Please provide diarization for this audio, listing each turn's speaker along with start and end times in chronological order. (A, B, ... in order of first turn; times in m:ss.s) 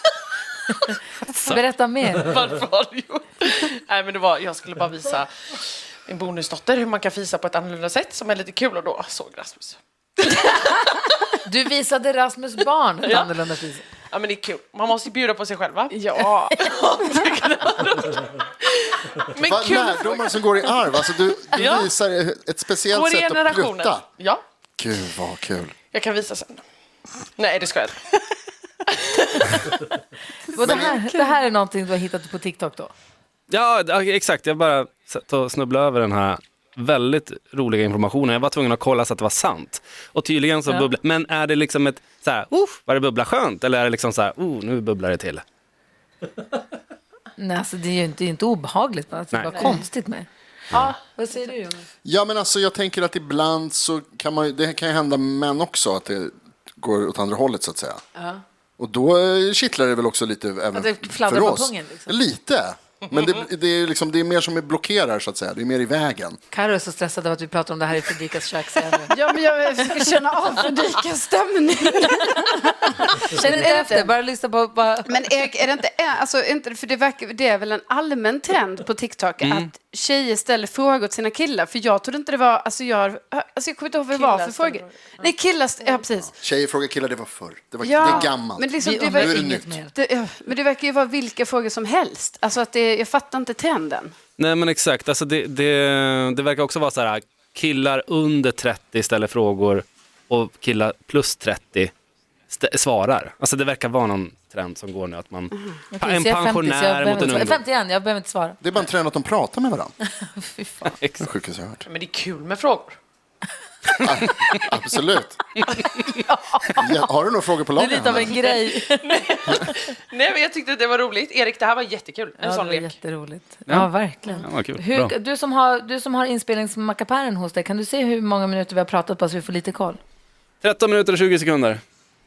0:01.3-0:02.3 A
0:02.1-0:11.1 B
0:11.4-0:13.8 A
0:13.0-0:13.5 B
0:14.1-0:20.7 B
0:15.9-0:17.1 C
0:19.4-0:24.0 D
0:21.5-0:21.9 B
0:22.9-0:24.4 B
0:24.8-0:25.7 D
0:25.9-0:26.6 B
0:27.4-0:28.2 B
0:28.9-0:29.6 B
0:30.5-0:32.9 A
0:30.6-0:31.0 D
0:33.5-0:45.4 E
0:47.4-0:51.8 A
0:49.3-0:49.7 E
0:52.0-0:58.0 D
0:58.2-0:58.4 A
0:58.8-1:06.4 D
1:00.7-1:02.1 A
1:06.5-1:09.1 A
1:09.1-1:14.1 C
1:13.3-1:15.2 A
1:15.1-1:26.3 C
1:19.4-1:19.7 E
1:24.1-1:26.0 B
1:26.2-1:29.7 D
1:27.8-1:34.1 C
1:28.8-1:29.9 A
1:34.4-1:41.9 E
1:42.5-1:47.6 E
1:45.9-1:48.6 A
1:48.6-1:49.9 D
1:50.1-1:50.9 A
1:50.8-1:51.2 E
1:51.2-1:51.8 D
1:51.9-1:53.0 B
1:54.0-1:55.4 D
1:56.1-1:57.0 A
1:56.8-1:58.4 D
1:57.7-1:59.7 A
1:58.4-2:03.0 B
2:02.4-2:10.0 A
2:03.7-2:05.1 E
2:10.6-2:11.8 E